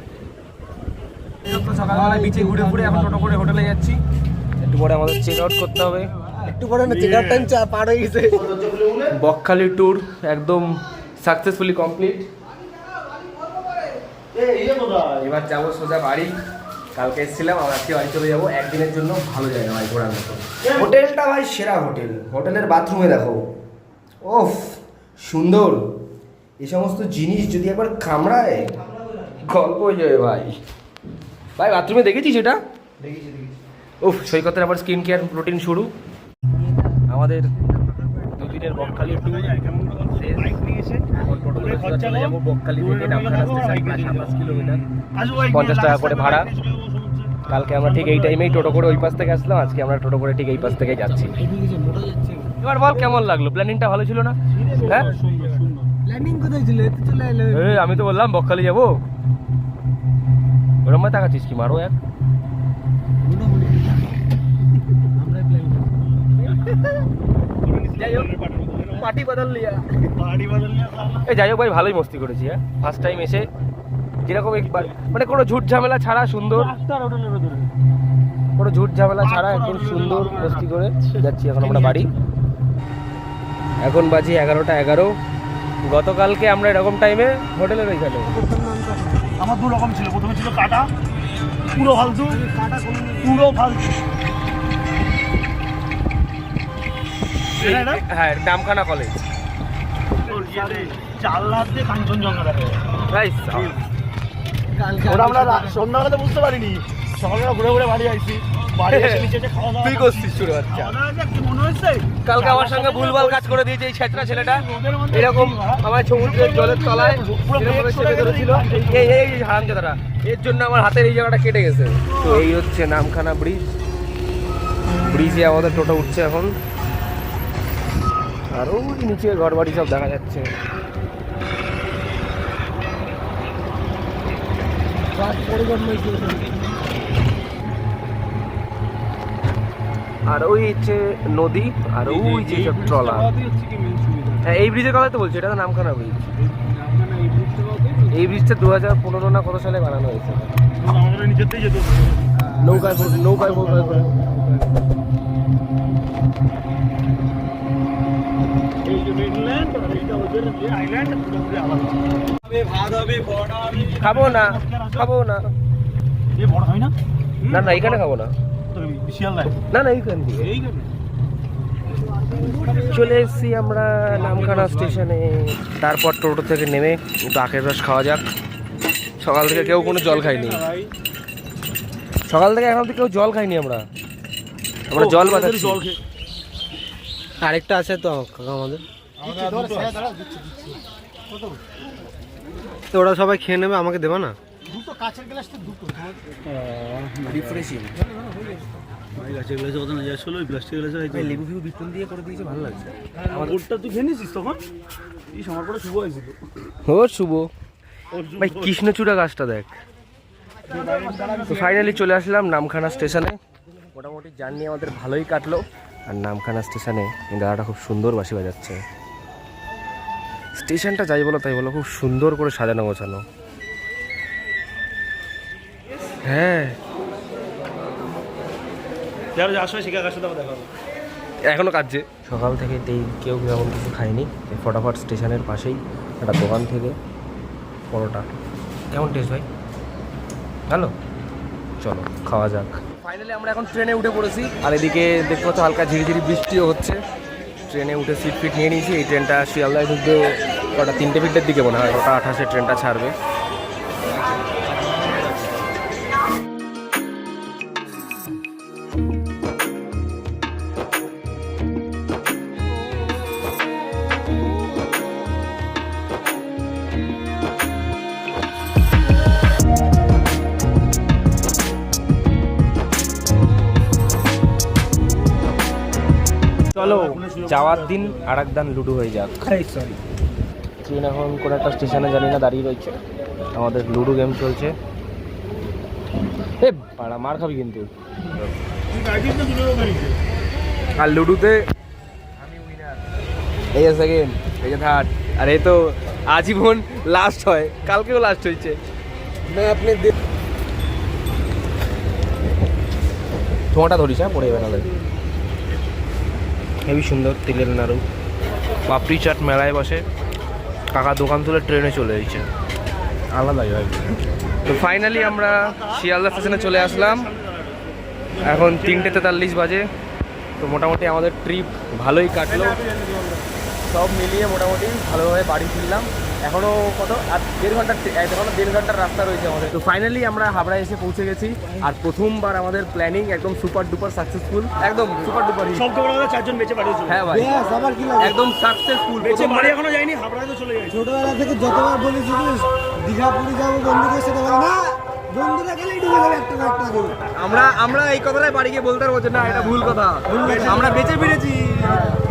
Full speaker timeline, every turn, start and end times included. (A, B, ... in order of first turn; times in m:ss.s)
0:01.4-0:04.0 A
0:01.9-0:03.3 B
0:04.6-0:06.1 A
0:06.4-0:08.5 B
0:06.8-0:07.5 C
0:08.3-0:09.1 C
0:09.1-0:12.3 A
0:14.3-0:15.2 C
0:15.2-0:16.3 A
0:17.0-0:23.4 A
0:24.2-0:25.8 A
0:26.6-0:30.6 A
0:31.6-0:32.6 A
0:33.0-0:33.5 B
0:34.0-0:35.9 A
0:37.1-0:37.5 A
0:38.4-0:39.5 A
0:38.4-0:49.6 C
0:40.1-0:40.6 A
0:41.1-0:44.8 A
0:45.5-0:46.5 A
0:47.5-0:51.4 A
0:50.6-0:52.6 B
0:52.6-0:55.1 A
0:54.5-0:55.9 C
0:54.7-0:58.0 B
0:57.5-0:59.0 A
1:00.8-1:02.0 A
1:03.2-1:04.0 B
1:05.0-1:06.0 B
1:06.4-1:07.0 A
1:07.6-1:09.1 C
1:08.0-1:08.3 A
1:08.9-1:10.1 A
1:10.2-1:11.3 C
1:11.2-1:13.5 A
1:14.2-1:16.7 A
1:14.5-1:15.0 C
1:16.5-1:17.7 C
1:18.6-1:22.1 A
1:19.2-1:22.2 C
1:23.8-1:25.1 A
1:25.8-1:28.4 A
1:28.3-1:29.4 B
1:29.4-1:30.9 C
1:31.7-1:32.4 C
1:32.2-1:33.5 B
1:33.2-1:34.0 C
1:37.6-1:38.0 C
1:37.6-1:39.2 A
1:40.2-1:43.0 C
1:40.4-1:40.6 A
1:43.1-1:43.8 A
1:43.5-1:43.8 C
1:44.8-1:45.8 B
1:45.0-1:59.3 C
1:48.9-1:49.3 A
1:49.8-1:51.0 A
1:52.2-2:03.6 A
2:02.1-2:02.5 C
2:05.0-2:06.5 A
2:08.5-2:10.5 A
2:15.1-2:16.4 A
2:20.3-2:23.3 A
2:22.1-2:24.4 C
2:24.4-2:26.3 A
2:26.7-2:28.0 C
2:26.9-2:28.0 B
2:28.1-2:30.5 A
2:30.7-2:34.1 C
2:32.6-2:32.8 B
2:32.6-2:34.1 A
2:34.1-2:34.7 B
2:38.8-2:45.1 C
2:44.0-2:45.5 A
2:46.4-2:48.0 C
2:47.5-2:48.3 A
2:48.7-2:49.6 C
2:49.7-2:50.5 A
2:50.4-2:50.9 C
2:52.2-2:53.2 C
2:52.7-2:58.2 A
2:54.0-2:55.0 C
2:59.2-3:00.6 A
2:59.5-3:00.9 C
3:02.3-3:03.8 A
3:04.9-3:05.8 A
3:05.0-3:06.0 C
3:07.4-3:10.8 B
3:09.2-3:10.3 C
3:12.9-3:14.4 B
3:14.7-3:17.6 C
3:17.2-3:18.1 A
3:19.1-3:21.4 C
3:21.1-3:23.6 A
3:23.3-3:24.6 C
3:25.3-3:26.4 C
3:26.7-3:27.5 A
3:28.1-3:28.8 C
3:28.4-3:29.8 A
3:30.6-3:32.0 C
3:31.5-3:33.4 A
3:33.9-3:38.8 A
3:40.6-3:43.2 A
3:46.2-3:46.8 A
3:49.4-3:50.7 C
3:51.5-3:57.0 A
3:57.9-3:58.3 A
3:58.9-3:59.5 A
4:00.7-4:00.9 A
4:01.8-4:07.0 A
4:07.7-4:13.1 A
4:36.8-4:38.3 C
4:36.8-4:40.0 A
4:40.8-4:43.0 A
4:43.5-4:44.8 A
4:46.6-4:48.5 A
4:48.9-4:50.2 C
4:51.0-4:51.6 A
4:52.4-4:53.1 A
4:53.7-4:58.8 A
4:59.5-5:00.1 B
5:03.7-5:04.9 A
5:06.8-5:08.0 A
5:08.9-5:10.0 A
5:10.9-5:12.4 A
5:13.3-5:17.3 A
5:15.1-5:19.3 C
5:18.4-5:19.9 A
5:20.6-5:22.8 A
5:22.5-5:23.5 C
5:23.9-5:35.9 A
5:35.7-5:37.2 C
5:37.1-5:37.5 A
5:37.3-5:38.4 B
5:38.2-5:39.8 A
5:39.2-5:41.0 C
5:40.9-5:47.2 B
5:47.3-5:52.1 A
5:49.4-5:51.0 B
5:50.4-5:50.8 C